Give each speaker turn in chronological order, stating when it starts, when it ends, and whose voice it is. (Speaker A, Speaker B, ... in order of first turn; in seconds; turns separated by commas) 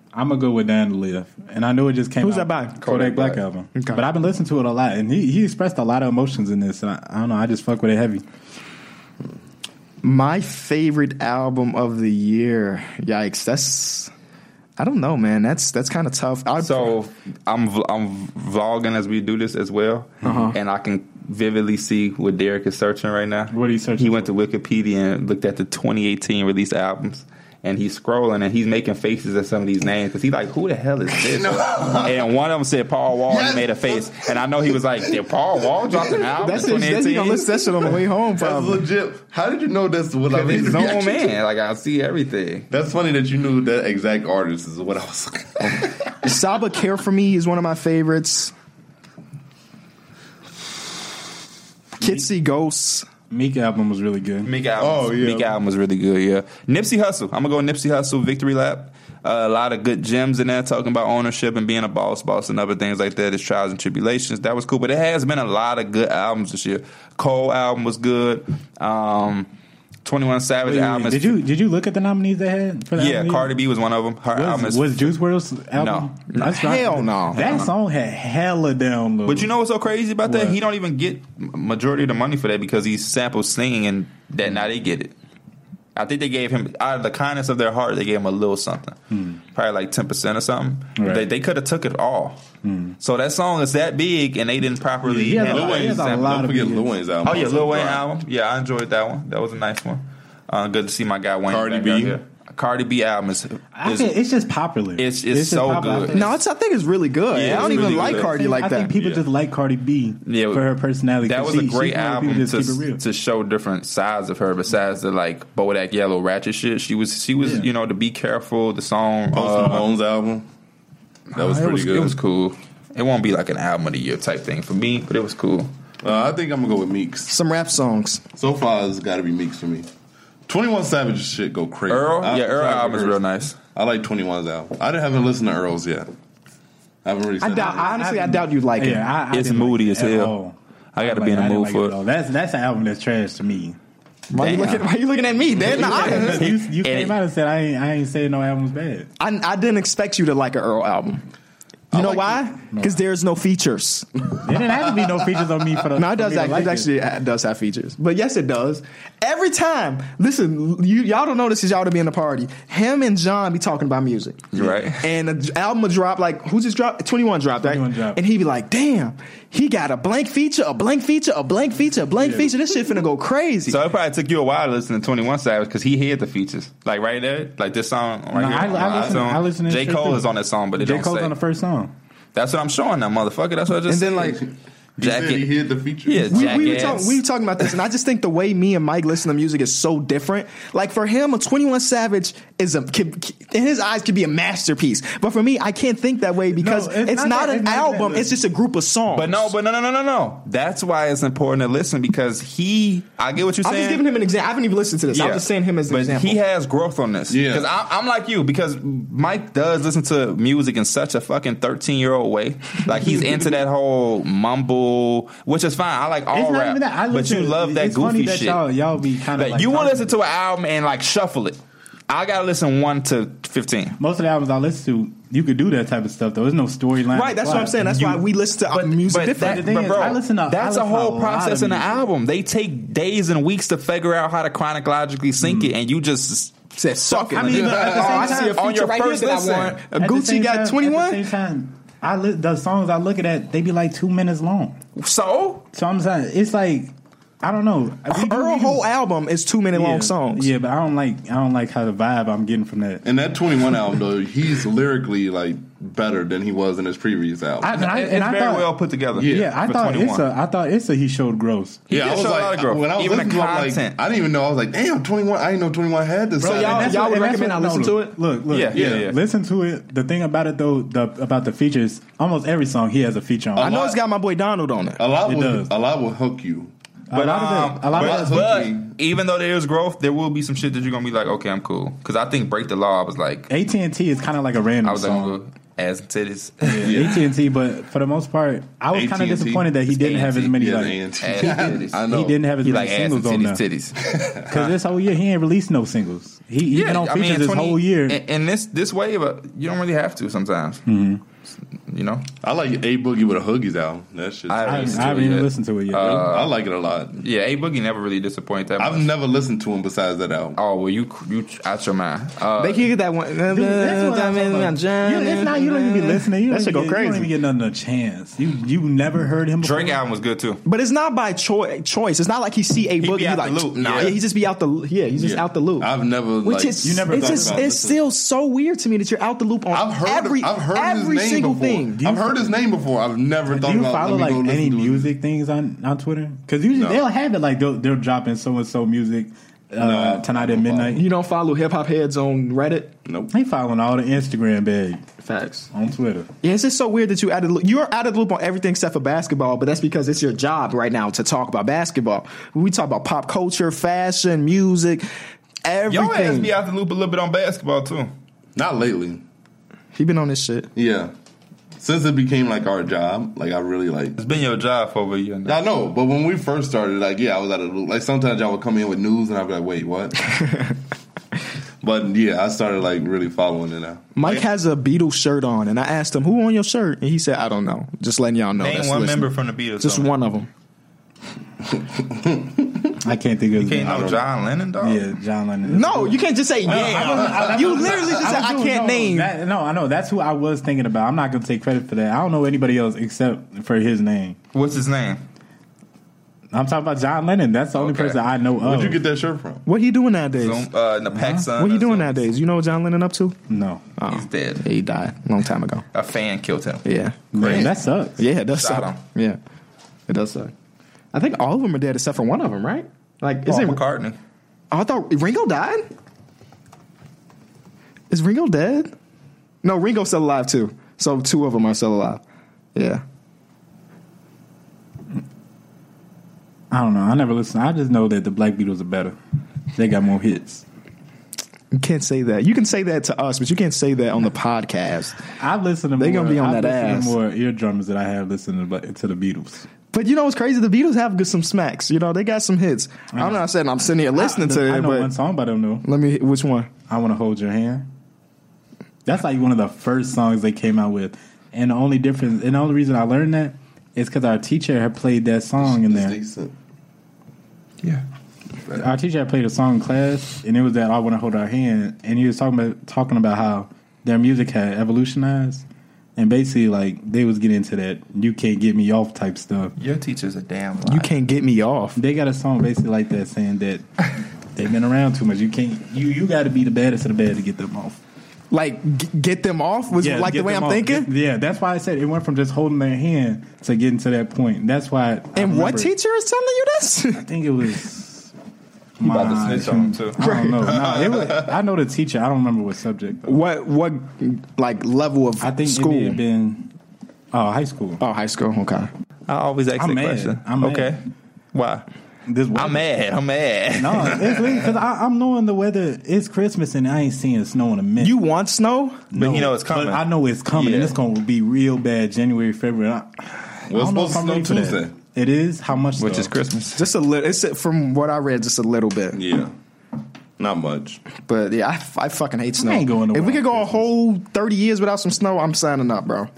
Speaker A: 0.1-8.2, Speaker B: 2.2-2.8, Speaker C: 2.8-3.4, Speaker B: 3.8-4.0, Speaker B: 10.0-14.1, Speaker B: 14.8-16.9, Speaker C: 16.6-37.9, Speaker B: 20.2-20.6, Speaker A: 20.2-20.5, Speaker A: 23.5-24.3, Speaker D: 31.1-32.3, Speaker D: 33.3-34.7, Speaker D: 35.7-36.2, Speaker B: 36.4-38.8, Speaker D: 38.4-41.3, Speaker C: 40.3-42.7, Speaker D: 42.7-46.2, Speaker B: 46.2-48.5, Speaker B: 52.0-53.1, Speaker A: 53.3-54.5, Speaker C: 54.5-69.5, Speaker D: 54.8-55.5, Speaker C: 70.0-71.4, Speaker A: 70.7-73.5, Speaker C: 73.0-75.1, Speaker A: 74.3-79.5, Speaker C: 75.8-76.1, Speaker B: 76.3-77.6, Speaker C: 77.3-77.7, Speaker C: 79.3-85.1, Speaker A: 80.2-80.6, Speaker C: 86.0-89.0, Speaker A: 89.1-89.4, Speaker C: 89.5-92.4, Speaker A: 91.0-91.3, Speaker A: 92.6-93.0, Speaker C: 93.0-96.4, Speaker A: 95.0-96.9, Speaker D: 95.4-98.1, Speaker C: 97.2-104.1, Speaker D: 101.5-102.2, Speaker A: 103.8-106.4, Speaker C: 105.0-106.2, Speaker B: 106.1-108.9, Speaker C: 107.3-108.3, Speaker A: 107.4-113.0, Speaker D: 109.0-109.2, Speaker C: 110.3-110.7, Speaker C: 111.2-119.9, Speaker A: 117.4-117.7, Speaker D: 119.3-120.5, Speaker C: 121.3-125.7, Speaker D: 121.3-122.2, Speaker D: 126.0-127.3, Speaker B: 127.3-128.2, Speaker D: 128.4-129.9, Speaker D: 130.5-133.2, Speaker C: 131.9-133.6, Speaker D: 133.7-136.1, Speaker D: 137.1-137.9, Speaker B: 137.4-139.1, Speaker A: 137.5-143.8, Speaker C: 139.3-140.3, Speaker C: 140.9-141.9, Speaker B: 144.3-146.5, Speaker C: 144.4-144.9, Speaker D: 145.6-146.1, Speaker A: 145.6-149.1, Speaker C: 145.8-147.2, Speaker B: 149.2-151.2, Speaker D: 151.9-152.4, Speaker B: 151.9-154.1, Speaker A: 152.7-153.0, Speaker A: 154.4-156.9, Speaker B: 155.9-173.8, Speaker C: 164.5-165.1, Speaker A: 167.6-168.2, Speaker A: 172.2-172.5, Speaker C: 173.7-181.3, Speaker A: 178.3-181.9, Speaker C: 182.3-184.4, Speaker B: 183.9-184.4, Speaker C: 185.0-185.5, Speaker D: 185.0-187.0, Speaker C: 186.1-187.2, Speaker B: 186.3-199.5, Speaker A: 196.5-198.4, Speaker C: 199.1-204.0, Speaker B: 203.6-206.4, Speaker C: 205.1-218.6, Speaker D: 207.3-207.7, Speaker A: 216.3-220.1, Speaker C: 219.3-221.6, Speaker C: 222.1-224.0, Speaker A: 224.0-228.2, Speaker B: 227.1-229.7, Speaker A: 228.8-232.1, Speaker C: 228.9-239.8, Speaker A: 235.4-235.7, Speaker B: 236.8-241.2, Speaker A: 237.3-238.6, Speaker D: 237.4-238.3, Speaker A: 239.9-244.8, Speaker C: 245.0-245.6, Speaker A: 245.7-248.8, Speaker B: 248.1-250.5, Speaker A: 249.7-253.0, Speaker D: 253.0-257.7, Speaker A: 257.6-261.8, Speaker C: 257.7-260.2, Speaker D: 259.2-259.5, Speaker C: 261.9-264.0, Speaker D: 261.9-267.0, Speaker B: 266.4-268.2, Speaker A: 266.4-273.8, Speaker C: 268.5-269.2, Speaker D: 268.7-269.1, Speaker D: 273.6-274.0, Speaker B: 273.6-275.0, Speaker D: 275.0-276.7, Speaker A: 275.2-275.7, Speaker A: 277.1-278.6, Speaker C: 277.1-283.5, Speaker D: 277.9-278.9, Speaker A: 283.5-285.4, Speaker C: 284.8-287.3, Speaker A: 286.6-291.5, Speaker D: 286.8-287.3, Speaker D: 288.9-289.7, Speaker C: 289.9-290.6, Speaker D: 290.6-292.4, Speaker C: 291.2-292.1, Speaker A: 292.1-293.6, Speaker C: 292.6-294.8, Speaker D: 294.1-294.4, Speaker A: 294.5-298.2, Speaker C: 296.7-300.8, Speaker A: 300.9-301.2, Speaker C: 301.9-302.3, Speaker D: 302.4-305.4, Speaker C: 304.5-306.6, Speaker A: 304.6-306.3, Speaker D: 306.0-307.2, Speaker C: 307.2-309.1, Speaker D: 308.8-310.6, Speaker C: 310.6-312.9, Speaker B: 312.6-317.3, Speaker A: 313.5-320.0, Speaker C: 319.6-320.6, Speaker B: 320.6-325.9, Speaker C: 323.0-324.2, Speaker D: 325.2-328.1, Speaker B: 326.4-332.0, Speaker A: 326.8-327.8, Speaker D: 329.7-335.1, Speaker A: 332.0-332.6, Speaker A: 333.5-341.0, Speaker D: 336.7-337.0, Speaker D: 339.8-341.0, Speaker B: 340.9-342.9, Speaker D: 343.1-343.3, Speaker A: 343.3-345.1, Speaker B: 345.2-345.7, Speaker A: 345.7-346.3, Speaker B: 346.4-355.1, Speaker B: 355.6-356.5, Speaker C: 355.9-358.1, Speaker D: 358.6-359.2, Speaker B: 359.9-360.7, Speaker D: 360.8-361.1, Speaker D: 361.8-364.2, Speaker C: 364.2-365.6, Speaker D: 365.5-370.4, Speaker B: 370.4-370.8, Speaker D: 371.8-374.4, Speaker B: 374.1-380.5, Speaker C: 378.6-380.1, Speaker D: 381.8-382.9, Speaker A: 383.0-384.2, Speaker C: 383.6-385.1, Speaker A: 384.8-394.4, Speaker B: 385.6-389.3, Speaker D: 386.7-387.8, Speaker C: 394.5-395.2, Speaker A: 396.5-399.0, Speaker C: 397.8-398.2, Speaker D: 398.6-399.6, Speaker B: 399.7-400.7, Speaker C: 400.4-402.3, Speaker A: 401.1-401.5, Speaker B: 401.6-403.4, Speaker A: 403.5-403.8, Speaker B: 404.0-405.9, Speaker C: 404.1-404.6, Speaker C: 405.9-406.9, Speaker B: 406.9-409.4, Speaker A: 407.3-408.2, Speaker C: 408.5-409.0, Speaker B: 410.1-410.5, Speaker B: 411.1-413.8, Speaker C: 413.5-414.2, Speaker B: 414.7-415.9, Speaker B: 418.1-418.9, Speaker B: 419.6-422.2, Speaker B: 422.8-423.0, Speaker A: 426.7-429.2, Speaker A: 429.8-430.6, Speaker B: 431.7-435.2, Speaker A: 435.4-439.7, Speaker B: 436.0-437.1, Speaker B: 439.9-445.1, Speaker A: 443.1-443.4, Speaker A: 444.1-445.8, Speaker B: 445.8-446.7, Speaker A: 446.9-447.9, Speaker A: 449.1-456.2, Speaker D: 455.6-456.5, Speaker A: 458.7-465.6, Speaker A: 466.2-469.7, Speaker C: 469.8-471.1, Speaker B: 470.9-472.0, Speaker A: 472.0-473.9, Speaker A: 474.5-478.0, Speaker B: 478.5-481.1, Speaker A: 480.0-485.9, Speaker B: 485.4-487.3, Speaker A: 487.2-488.3, Speaker A: 489.0-493.4, Speaker C: 489.0-490.2, Speaker B: 490.2-490.7, Speaker D: 490.6-491.6, Speaker B: 493.3-496.2, Speaker A: 495.4-496.7, Speaker A: 497.3-498.0, Speaker B: 498.0-498.9, Speaker C: 499.3-501.0, Speaker A: 499.8-501.0, Speaker C: 501.5-501.9, Speaker A: 502.3-502.9, Speaker C: 502.6-504.4, Speaker A: 503.8-508.1, Speaker B: 508.0-509.1, Speaker A: 509.1-516.3, Speaker C: 509.1-511.0, Speaker D: 513.7-514.9, Speaker C: 516.0-516.9, Speaker B: 516.8-519.2, Speaker D: 519.1-519.5, Speaker D: 520.4-521.0, Speaker B: 521.2-526.3, Speaker A: 522.6-523.9